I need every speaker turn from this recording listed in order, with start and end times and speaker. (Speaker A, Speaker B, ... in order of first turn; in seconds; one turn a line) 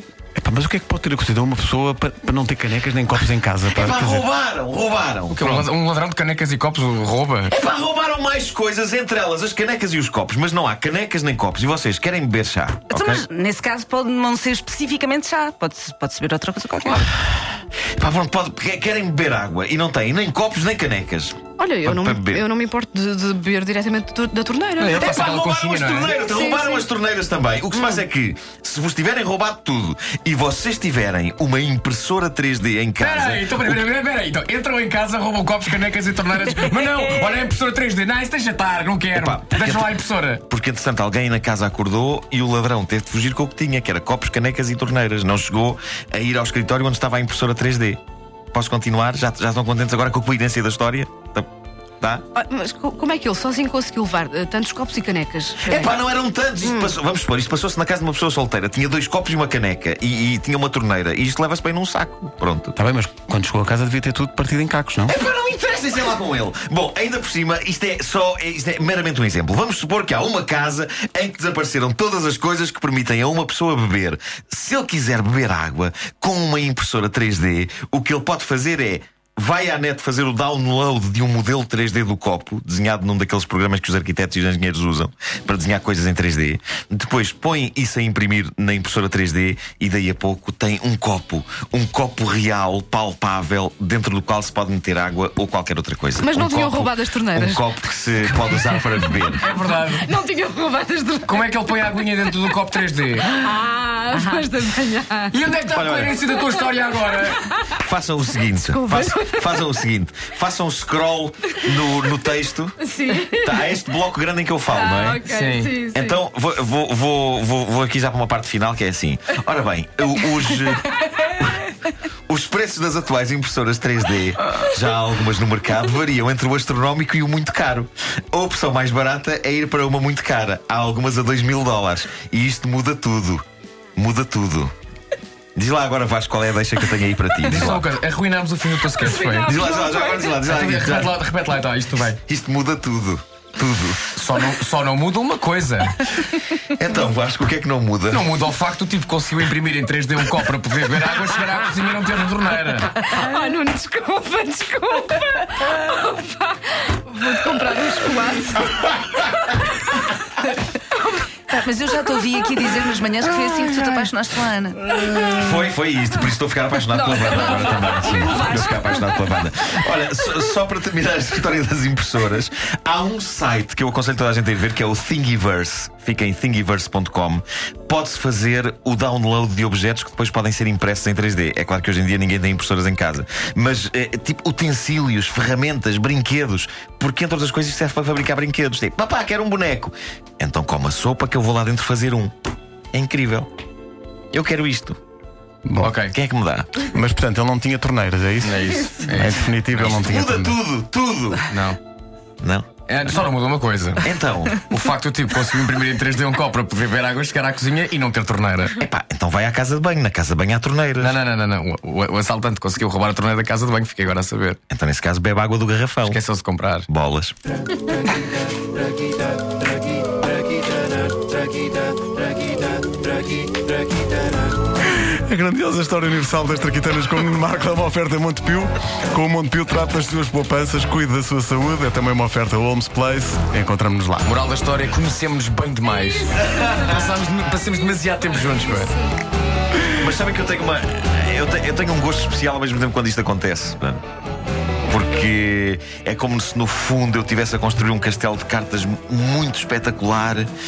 Speaker A: 0.4-4.2
Speaker B: 3.7-5.7
Speaker C: 5.3-7.5
Speaker B: 7.5-13.2
Speaker D: 12.9-17.1
Speaker B: 17.9-22.4
Speaker E: 21.6-25.1
Speaker C: 24.8-26.2
Speaker B: 24.9-33.8
Speaker E: 26.2-26.9
Speaker E: 27.7-28.0
Speaker C: 33.0-40.4
Speaker B: 39.1-40.0
Speaker B: 40.5-48.0
Speaker B: 48.5-51.5
Speaker E: 52.3-56.0
Speaker B: 55.6-62.8
Speaker E: 56.6-56.9
Speaker A: 62.7-65.1
Speaker B: 65.1-99.5
Speaker E: 96.2-97.7
Speaker C: 99.4-100.1
Speaker E: 99.9-101.5
Speaker C: 101.2-103.4
Speaker E: 103.4-105.3
Speaker C: 105.3-107.5
Speaker B: 105.6-106.2
Speaker B: 107.7-112.8
Speaker E: 108.7-109.6
Speaker E: 112.8-113.6
Speaker B: 113.4-115.2
Speaker E: 114.7-116.2
Speaker C: 115.2-115.7
Speaker B: 115.9-121.7
Speaker B: 122.3-133.4
Speaker B: 134.0-134.7
Speaker B: 135.6-137.9
Speaker C: 137.4-142.2
Speaker E: 139.1-140.2
Speaker B: 139.4-141.2
Speaker B: 142.1-144.1
Speaker C: 144.1-146.6
Speaker B: 146.7-148.3
Speaker C: 148.1-153.1
Speaker E: 153.1-159.0
Speaker E: 160.4-161.2
Speaker D: 161.5-165.0
Speaker B: 165.1-192.3
Speaker E: 167.2-168.3
Speaker D: 168.0-169.2
Speaker B: 192.9-193.5
Speaker B: 194.3-195.0
Speaker A: 195.6-195.9
Speaker C: 195.8-196.1
Speaker B: 196.1-196.7
Speaker A: 196.8-200.6
Speaker C: 198.4-200.0
Speaker B: 199.8-201.5
Speaker C: 201.5-201.8
Speaker B: 202.4-202.7
Speaker C: 202.9-208.8
Speaker B: 204.0-204.6
Speaker B: 208.8-211.1
Speaker C: 211.0-214.6
Speaker B: 214.7-216.2
Speaker C: 216.0-216.9
Speaker B: 216.9-217.3
Speaker A: 224.9-234.3
Speaker C: 234.2-238.9
Speaker B: 240.0-244.0
Speaker B: 244.9-250.5